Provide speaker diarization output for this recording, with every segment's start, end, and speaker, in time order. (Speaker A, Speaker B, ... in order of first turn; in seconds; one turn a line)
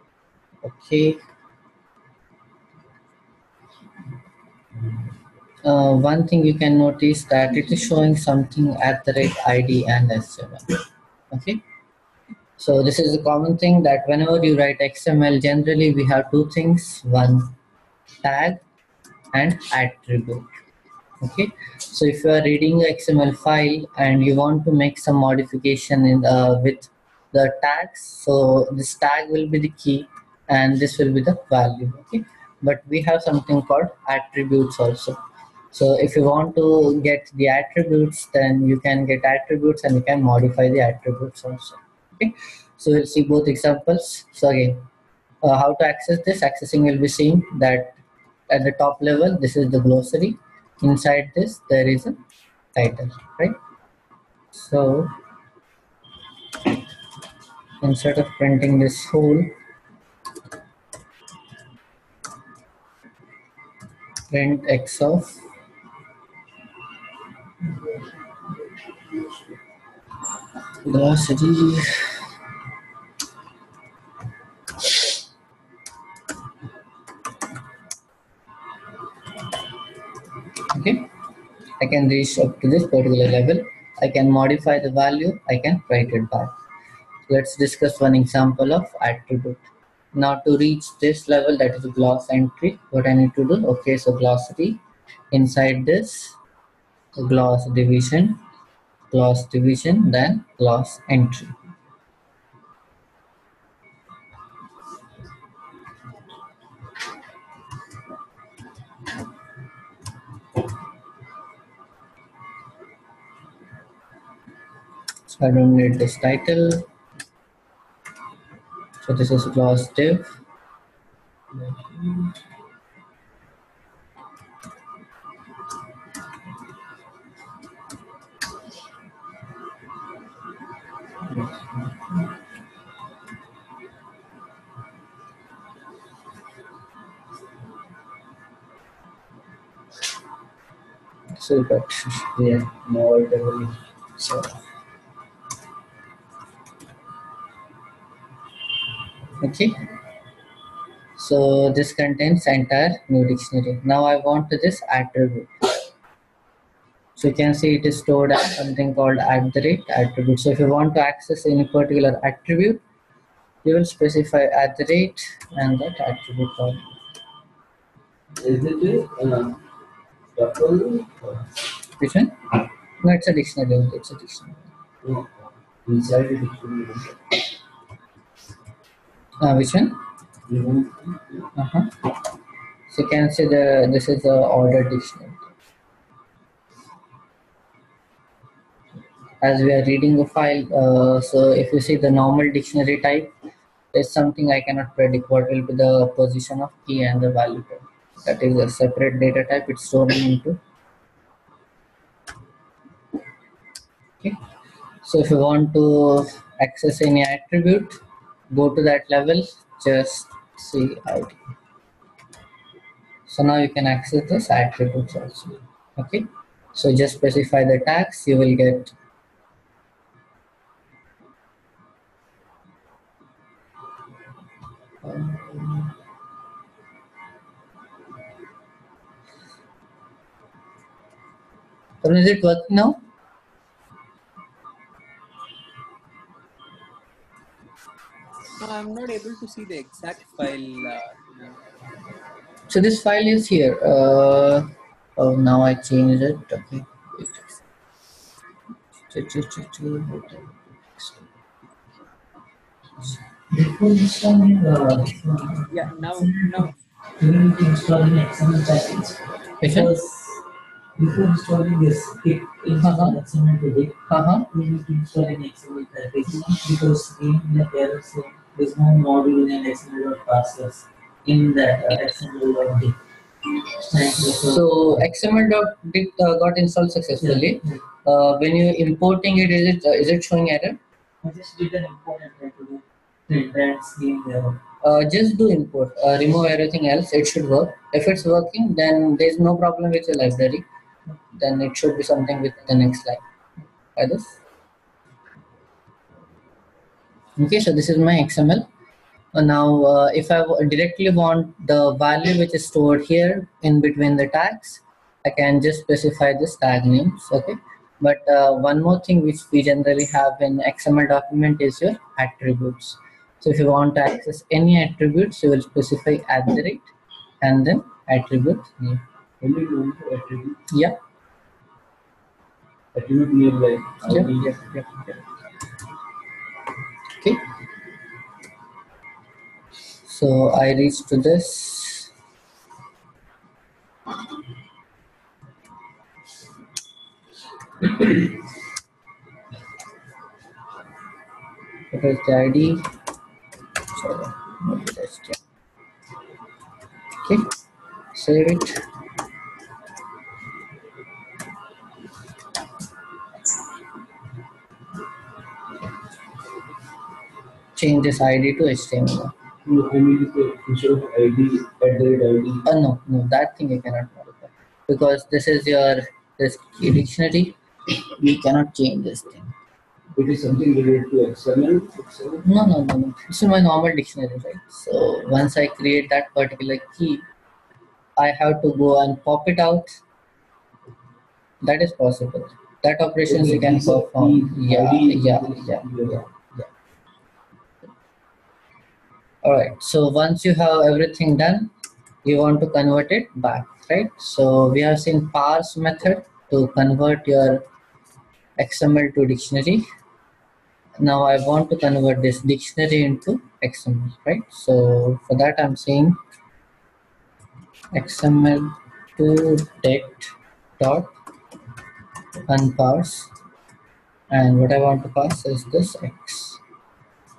Speaker A: 0.6-1.2
Speaker A: 5.6-10.7
Speaker A: 11.3-11.6
Speaker A: 12.6-17.5
Speaker A: 18.2-18.6
Speaker A: 19.3-20.5
Speaker A: 21.2-35.2
Speaker A: 35.7-44.8
Speaker A: 45.4-47.9
Speaker A: 48.5-52.2
Speaker A: 52.7-53.5
Speaker A: 54.5-55.1
Speaker A: 57.8-59.5
Speaker A: 64.3-65.4
Speaker A: 70.8-72.1
Speaker A: 80.7-81.1
Speaker A: 81.8-86.5
Speaker A: 87.3-89.6
Speaker A: 90.1-94.8
Speaker A: 95.3-96.4
Speaker A: 97.1-98.4
Speaker A: 99.1-101.5
Speaker A: 115.3-116.8
Speaker A: 119.0-120.3
Speaker A: 141.3-142.3
Speaker B: 142.3-143.8
Speaker A: 144.2-144.5
Speaker A: 149.4-149.8
Speaker A: 151.2-155.6
Speaker A: 157.2-162.8
Speaker A: 163.6-166.8
Speaker B: 168.4-169.6
Speaker B: 170.3-171.4
Speaker A: 172.0-174.6
Speaker B: 175.0-177.2
Speaker A: 179.4-180.0
Speaker B: 180.5-181.4
Speaker A: 181.6-181.9
Speaker A: 182.9-185.5
Speaker A: 189.4-193.3
Speaker A: 193.9-200.6
Speaker A: 205.0-211.3
Speaker A: 213.3-218.9
Speaker A: 225.0-225.9
Speaker A: 232.0-233.0
Speaker C: 238.6-241.5
Speaker A: 242.7-247.6
Speaker A: 249.1-251.2
Speaker D: 253.5-256.6
Speaker C: 255.7-256.7
Speaker D: 257.2-260.4
Speaker A: 259.6-259.9
Speaker D: 261.0-264.0
Speaker A: 262.8-263.2
Speaker A: 264.1-264.5
Speaker D: 264.5-273.0
Speaker D: 273.9-275.0
Speaker A: 274.1-280.8
Speaker D: 277.2-277.8
Speaker D: 281.2-284.6
Speaker A: 284.8-290.6
Speaker A: 291.3-293.2
Speaker A: 293.9-294.4
Speaker A: 297.4-298.6
Speaker A: 299.3-316.9
Speaker A: 317.4-319.0
Speaker B: 319.4-320.6
Speaker A: 320.7-321.0
Speaker B: 322.9-324.6
Speaker A: 324.1-325.2
Speaker A: 330.1-332.1
Speaker A: 341.9-342.8
Speaker A: 343.9-345.4
Speaker A: 347.2-347.5
Speaker A: 348.1-348.8
Speaker A: 357.8-359.3
Speaker B: 359.6-362.6
Speaker A: 362.6-369.5
Speaker B: 370.1-372.4
Speaker A: 372.4-377.2
Speaker A: 378.1-380.0
Speaker A: 381.6-386.2
Speaker B: 383.3-386.2
Speaker A: 389.4-391.7
Speaker A: 392.2-397.6
Speaker A: 398.6-399.9
Speaker A: 401.0-406.2
Speaker A: 407.9-411.1
Speaker A: 412.5-413.3
Speaker A: 414.3-416.6